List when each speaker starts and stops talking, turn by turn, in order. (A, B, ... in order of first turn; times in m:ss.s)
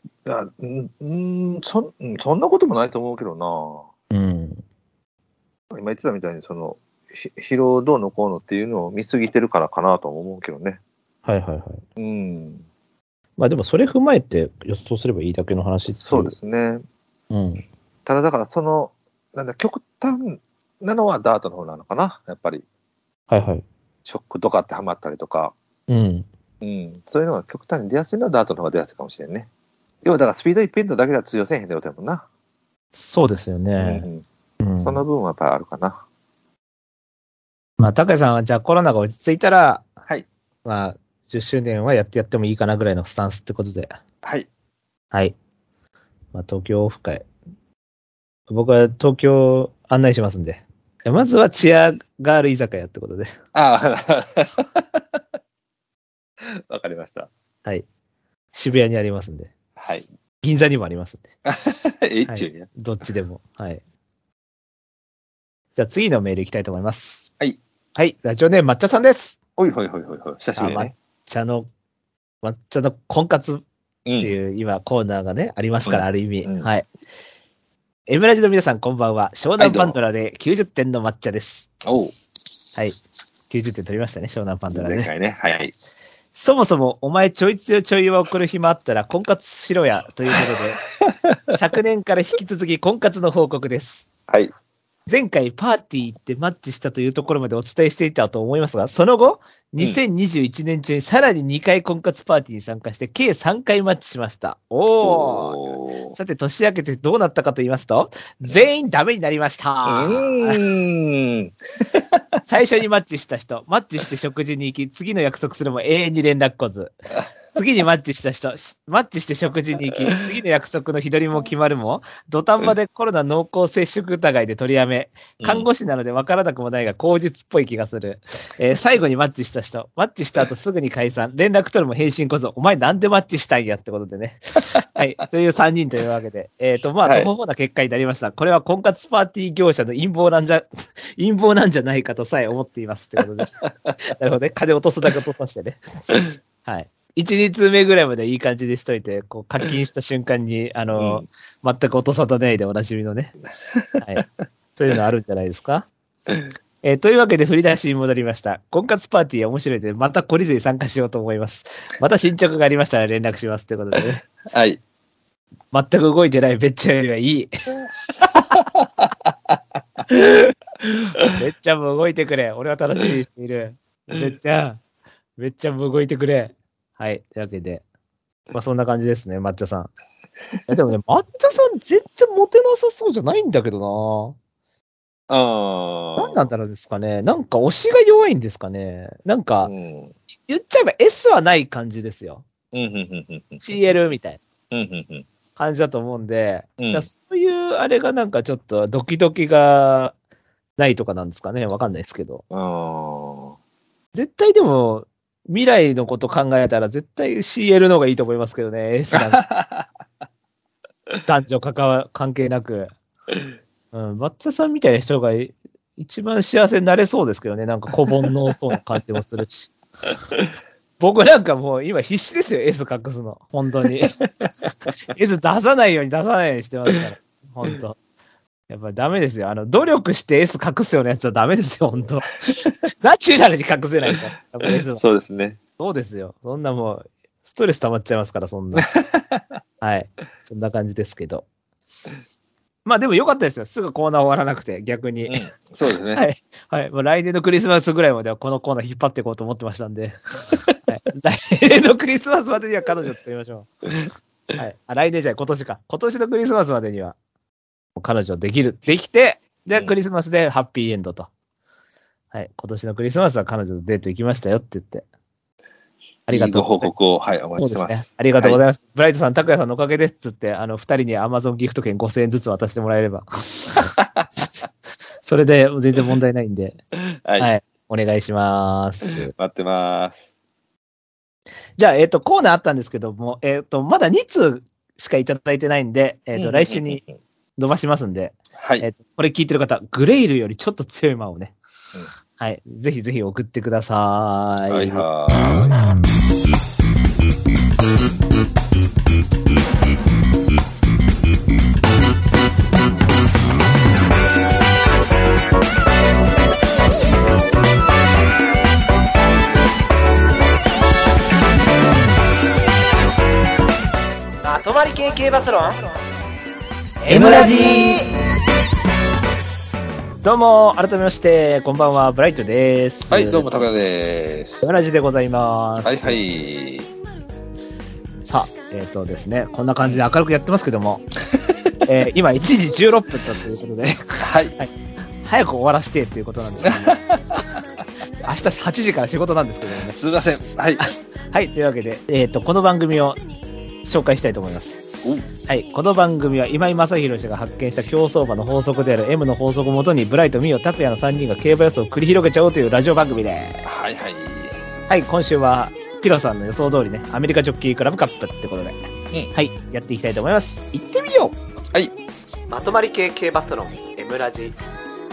0:00.2-0:03.9 A
0:04.1-0:04.6 B
0:05.7-0:10.8 A
0:11.2-0:11.8 B
0:12.0-0:12.6 A
0:13.4-0:16.3 B
0:15.9-0:16.8 A
0:17.3-0:17.6 B
0:18.0-0:22.6 A
0:23.3-0:23.6 B
0:24.0-0:25.5 A
0:25.9-0:26.2 B
0:26.6-0:29.5 A
0:30.0-0:32.2 A
0:32.9-0:34.1 B
0:33.8-0:34.2 A
0:34.6-0:35.0 B
0:34.8-0:36.0 A
0:37.8-0:39.8 B
0:40.6-0:43.9 B
0:44.2-0:44.5 A
0:46.3-0:47.2 B
0:48.5-0:53.4 B
0:53.5-0:55.2 A
0:56.4-0:57.3 A
0:58.5-0:59.5 B
0:59.8-1:00.0 A
1:00.4-1:01.2 B
1:01.5-1:02.7 A
1:02.2-1:03.8 B
1:05.7-1:07.3 B
1:08.0-1:09.4 B
1:09.6-1:10.9 A
1:10.6-1:11.7 B
1:12.4-1:13.6 B
1:14.0-1:14.3 A
1:14.2-1:16.9 B
1:15.8-1:16.7 A
1:18.1-1:21.7 B
1:19.6-1:20.0 A
1:21.8-1:22.1 A
1:23.5-1:25.1 B
1:24.7-1:25.7 A
1:26.3-1:30.8 B
1:31.1-1:31.4 A
1:31.5-1:34.1 B
1:35.1-1:50.6 B
1:45.0-1:46.2 A
1:49.9-1:52.2 A
1:52.4-1:56.9 B
1:57.5-2:26.0 B
2:05.4-2:05.7 A
2:23.6-2:23.9 A
2:26.6-2:33.3 B
2:31.0-2:31.2 A
2:34.0-2:35.9 B
2:36.8-2:44.2 B
2:44.4-2:44.8 A
2:45.7-2:47.5 B
2:48.5-2:49.6 A
2:51.3-2:54.8 B
2:55.4-2:57.8 B
2:58.5-2:59.9 B
3:00.6-3:04.4 B
3:05.3-3:06.4 A
3:06.2-3:09.7 B
3:09.6-3:10.1 A
3:10.5-3:12.4 B
3:12.7-3:13.6 A
3:13.6-3:14.4 B
3:14.7-3:15.3 A
3:15.5-3:20.1 B
3:16.8-3:17.1 A
3:20.8-3:22.4 B
3:22.5-3:23.6 A
3:24.1-3:29.4 B
3:29.1-3:29.8 A
3:31.2-3:32.9 B
3:33.9-3:39.7 B
3:41.0-3:44.2 B
3:45.1-3:48.0 B
3:48.7-3:55.0 B
3:54.7-3:55.6 A
3:55.8-3:58.9 B
3:58.8-3:59.4 A
3:59.8-4:01.4 B
4:02.8-4:05.5 B
4:05.3-4:06.2 A
4:06.1-4:10.2 B
4:10.8-4:13.7 B
4:14.5-4:17.2 B
4:18.0-4:21.3 B
4:22.3-4:25.0 B
4:26.3-4:26.9 B
4:26.3-4:28.6 A
4:27.6-4:33.9 B
4:35.2-4:36.8 B
4:37.1-4:37.5 A
4:37.4-4:39.3 B
4:39.3-4:40.2 A
4:41.8-4:47.0 B
4:46.4-4:47.1 A
4:47.6-4:51.5 B
4:48.6-4:48.8 A
4:52.4-4:55.8 B
4:54.7-4:55.7 A
5:14.4-5:15.9 B
5:17.0-5:18.1 B
5:17.1-5:18.1 A
5:20.2-5:23.5 B
5:23.1-5:24.6 A
5:24.6-5:26.2 B
5:25.8-5:26.9 A
5:28.2-5:31.1 B
5:31.8-5:37.0 B
5:34.2-5:34.5 A
5:36.6-5:37.4 A
5:38.2-5:40.0 B
5:40.0-5:40.8 A
5:40.8-5:43.2 B
5:43.8-5:44.8 B
5:45.0-5:45.3 A
5:45.4-5:53.7 B
5:53.6-5:54.6 A
5:54.9-5:58.8 B
5:59.3-6:01.4 B
6:02.5-6:04.6 B